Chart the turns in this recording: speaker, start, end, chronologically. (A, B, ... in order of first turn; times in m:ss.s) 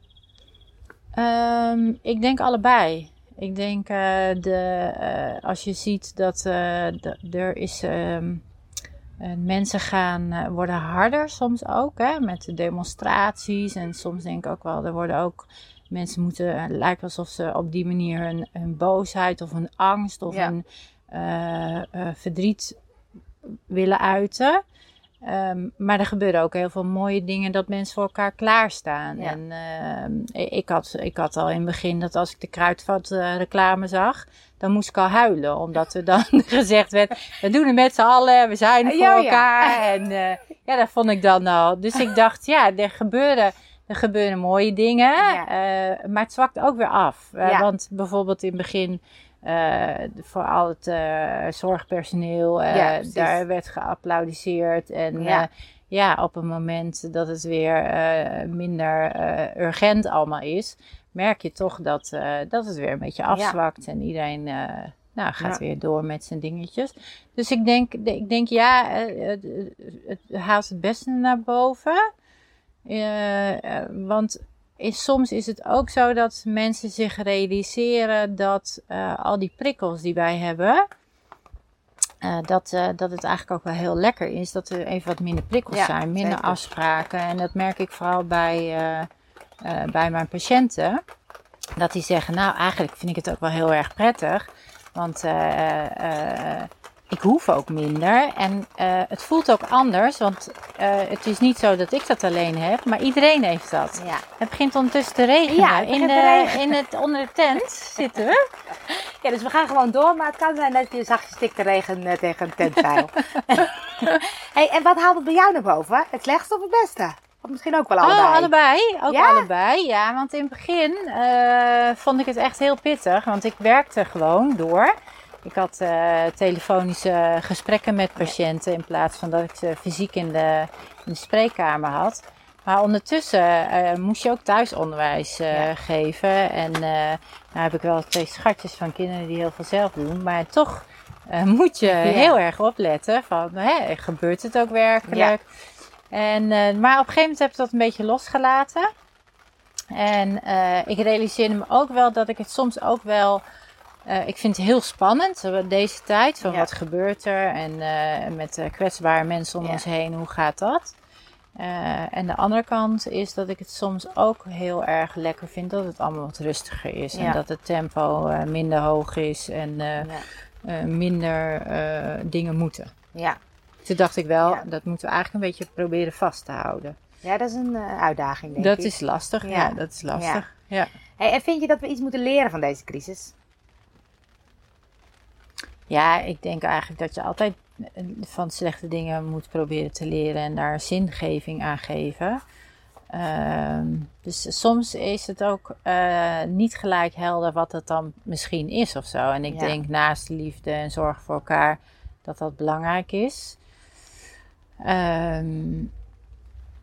0:01.2-0:08.4 A
0:09.2-0:22.8 A
0:23.7-0:24.6 A
0:25.2-1:12.0 A
0:38.8-0:39.8 B
0:45.2-0:45.5 B
0:47.4-0:47.7 B
0:52.7-0:53.4 B
0:55.2-0:55.5 B
1:03.3-1:03.6 B
1:12.8-1:20.8 A
1:22.2-1:29.1 A
1:25.7-1:26.6 B
1:29.6-1:31.0 A
1:31.8-1:48.4 A
1:44.0-1:44.2 B
1:45.5-1:46.8 B
1:48.8-1:58.5 B
1:58.0-2:04.9 A
1:59.1-1:59.5 B
2:05.4-2:25.4 A
2:21.8-2:22.4 B
2:25.1-2:25.3 B
2:26.1-2:28.9 A
2:29.9-2:33.4 A
2:34.1-2:40.9 A
2:36.4-2:36.7 B
2:41.6-2:50.1 A
2:50.0-2:50.3 B
2:50.6-2:52.9 A
2:53.8-2:57.0 A
2:57.2-3:00.4 B
2:58.6-3:00.9 A
3:01.2-3:03.3 B
3:05.9-3:12.4 A
3:13.1-3:23.6 A
3:19.5-3:19.7 B
3:24.8-3:25.9 A